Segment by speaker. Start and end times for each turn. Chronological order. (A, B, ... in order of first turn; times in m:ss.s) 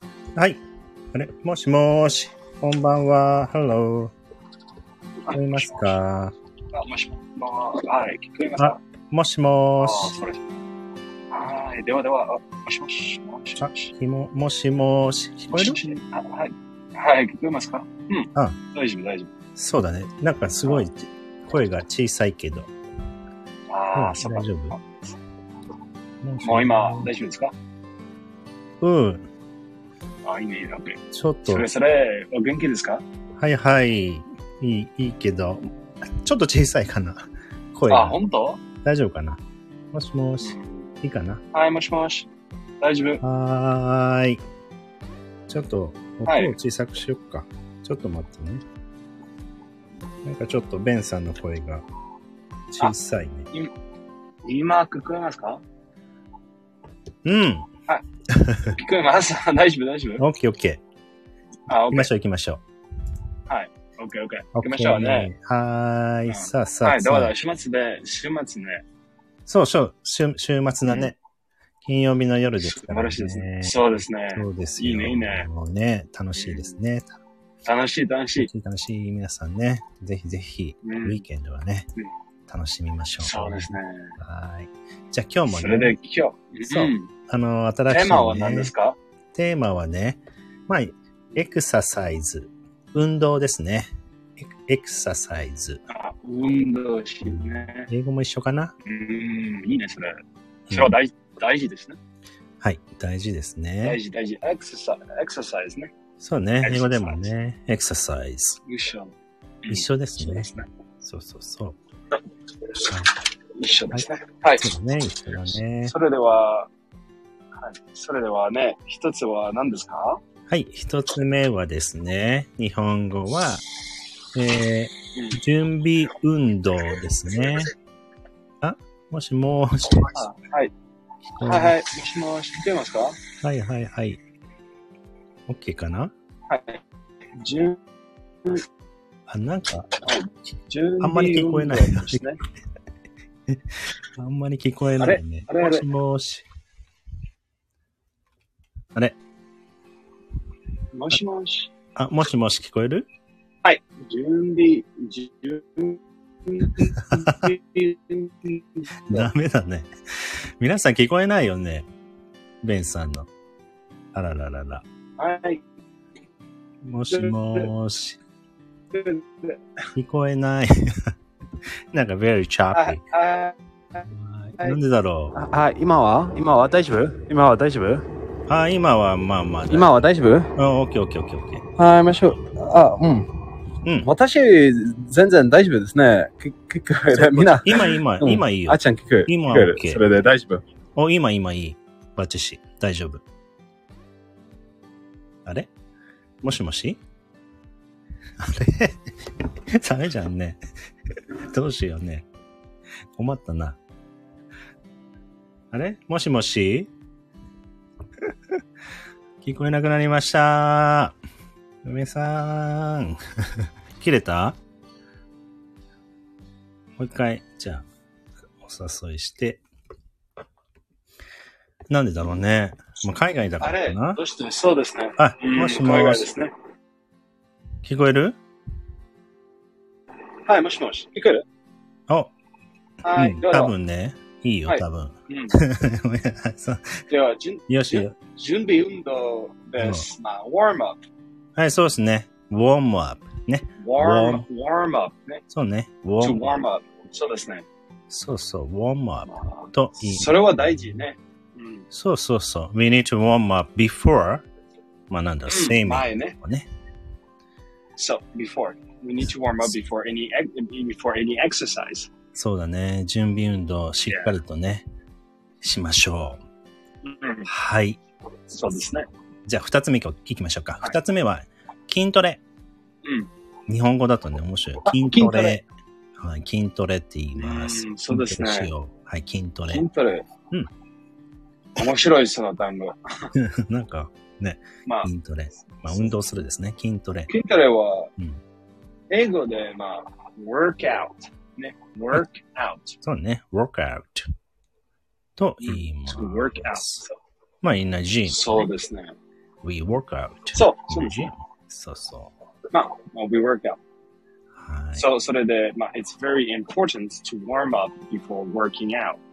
0:00.4-0:00.6 A
0:01.1-0:04.1 A
0:05.3-0:06.0 B
0:05.3-0:06.3 A
0:06.7-0:08.8 B
0:08.6-0:10.2 A
0:09.8-0:10.6 B
0:11.3-0:13.9 B
0:13.6-0:15.8 A
0:15.5-0:19.3 B
0:19.6-0:22.7 A
0:20.6-0:20.9 B
0:23.7-0:25.2 B
0:23.9-0:24.8 A
0:26.2-0:27.1 A
0:26.4-0:27.5 B
0:28.8-0:29.3 A
0:30.2-0:33.0 B
0:31.1-0:31.7 A
0:33.4-0:35.7 A
0:36.2-0:38.2 A
0:37.9-0:38.6 B
0:38.8-0:39.4 A
0:39.9-0:41.4 A
0:40.4-0:40.9 B
0:41.5-0:42.3 B
0:42.8-0:43.2 B
0:43.2-0:44.4 A
0:45.5-0:48.6 A
0:46.3-0:46.6 B
0:50.2-0:51.8 A
0:52.7-0:53.5 A
0:54.4-0:55.6 B
0:57.2-0:57.7 A
0:58.3-0:58.8 A
0:58.7-1:00.2 B
1:00.2-1:00.8 A
1:01.7-1:02.1 B
1:01.9-1:02.6 A
1:03.5-1:05.3 B
1:04.6-1:07.3 A
1:06.3-1:08.8 B
1:09.5-1:11.2 A
1:10.9-1:11.1 B
1:11.8-1:17.2 A
1:12.6-1:15.5 B
1:16.4-1:16.8 B
1:17.6-1:18.5 B
1:18.4-1:21.9 A
1:20.8-1:21.2 B
1:22.5-1:26.0 A
1:23.2-1:24.2 B
1:25.5-1:27.1 B
1:26.6-1:28.7 A
1:27.9-1:29.0 B
1:29.3-1:35.8 A
1:35.9-1:37.9 B
1:37.2-1:38.7 A
1:38.8-1:40.2 B
1:40.7-1:42.0 B
1:42.6-1:44.0 A
1:43.8-1:45.9 B
1:46.2-1:48.6 A
1:46.6-1:47.2 B
1:48.6-1:49.1 B
1:49.6-1:50.7 B
1:49.7-1:50.5 A
1:51.0-1:51.8 A
1:52.8-1:53.1 A
1:53.6-1:54.7 B
1:54.6-1:55.9 A
1:55.8-1:56.7 B
1:57.6-2:00.2 B
2:00.5-2:03.6 A
2:04.4-2:07.7 A
2:05.2-2:05.4 B
2:08.6-2:10.2 A
2:10.0-2:10.7 B
2:11.3-2:11.8 A
2:11.4-2:13.2 B
2:13.4-2:14.2 A
2:15.5-2:16.1 A
2:16.5-2:16.8 B
2:17.4-2:17.8 B
2:19.3-2:19.9 A
2:20.0-2:22.4 B
2:21.0-2:22.3 A
2:24.2-2:26.5 A
2:25.0-2:25.9 B
2:30.9-2:31.7 B
2:32.0-2:33.1 A
2:33.6-2:39.3 B
2:37.0-2:37.5 A
2:39.1-2:41.9 A
2:42.6-2:43.3 A
2:44.1-2:44.8 A
2:45.2-2:45.6 B
2:46.8-2:48.2 A
2:47.1-2:47.7 B
2:48.9-2:49.6 B
2:49.9-2:51.1 A
2:51.9-2:53.0 A
2:52.7-2:54.0 B
2:54.0-2:55.4 A
2:55.4-2:58.1 C
2:58.5-3:00.0 A
2:59.7-3:00.5 C
3:00.6-3:01.6 A
3:01.8-3:03.3 C
3:03.8-3:04.1 A
3:04.0-3:10.6 C
3:07.1-3:10.1 A
3:11.0-3:13.2 A
3:15.4-3:15.7 A
3:16.4-3:17.0 A
3:18.4-3:20.6 A
3:21.4-3:22.3 A
3:23.2-3:23.8 A
3:25.7-3:26.9 A
3:28.2-3:28.6 A
3:29.4-3:31.2 A
3:31.8-3:34.6 A
3:37.0-3:37.8 A
3:38.6-3:39.6 A
3:41.9-3:44.2 A
3:43.6-3:46.5 B
3:45.2-3:46.3 A
3:47.8-3:48.4 A
3:50.4-3:51.4 B
3:53.0-3:53.7 B
3:53.1-3:57.0 A
3:54.7-3:55.6 B
3:57.1-4:01.0 B
3:57.7-3:58.1 A
3:59.8-4:00.1 A
4:01.6-4:04.5 A
4:03.8-4:05.4 B
4:05.5-4:06.6 A
4:06.2-4:07.7 B
4:08.1-4:10.8 A
4:09.3-4:11.9 B
4:11.9-4:14.5 A
4:15.1-4:16.7 A
4:15.5-4:16.4 B
4:18.0-4:22.1 B
4:22.4-4:24.9 A
4:25.6-4:26.4 A
4:27.0-4:27.5 B
4:27.5-4:28.0 A
4:28.5-4:29.1 B
4:29.5-4:32.4 A
4:33.0-4:33.3 B
4:33.7-4:35.6 A
4:34.8-4:35.6 B
4:36.2-4:39.9 A
4:37.4-4:38.7 B
4:39.7-4:40.3 B
4:41.8-4:43.0 B
4:43.3-4:47.3 A
4:44.8-4:45.1 B
4:45.9-4:46.1 B
4:47.3-4:48.1 B
4:49.1-4:53.0 B
4:53.0-4:54.3 A
4:55.4-4:57.0 A
4:55.6-4:57.1 B
4:57.6-4:58.7 A
4:58.3-4:59.2 B
4:59.6-5:02.3 A
5:00.5-5:01.3 B
5:02.7-5:03.8 B
5:04.6-5:05.1 A
5:04.9-5:09.2 B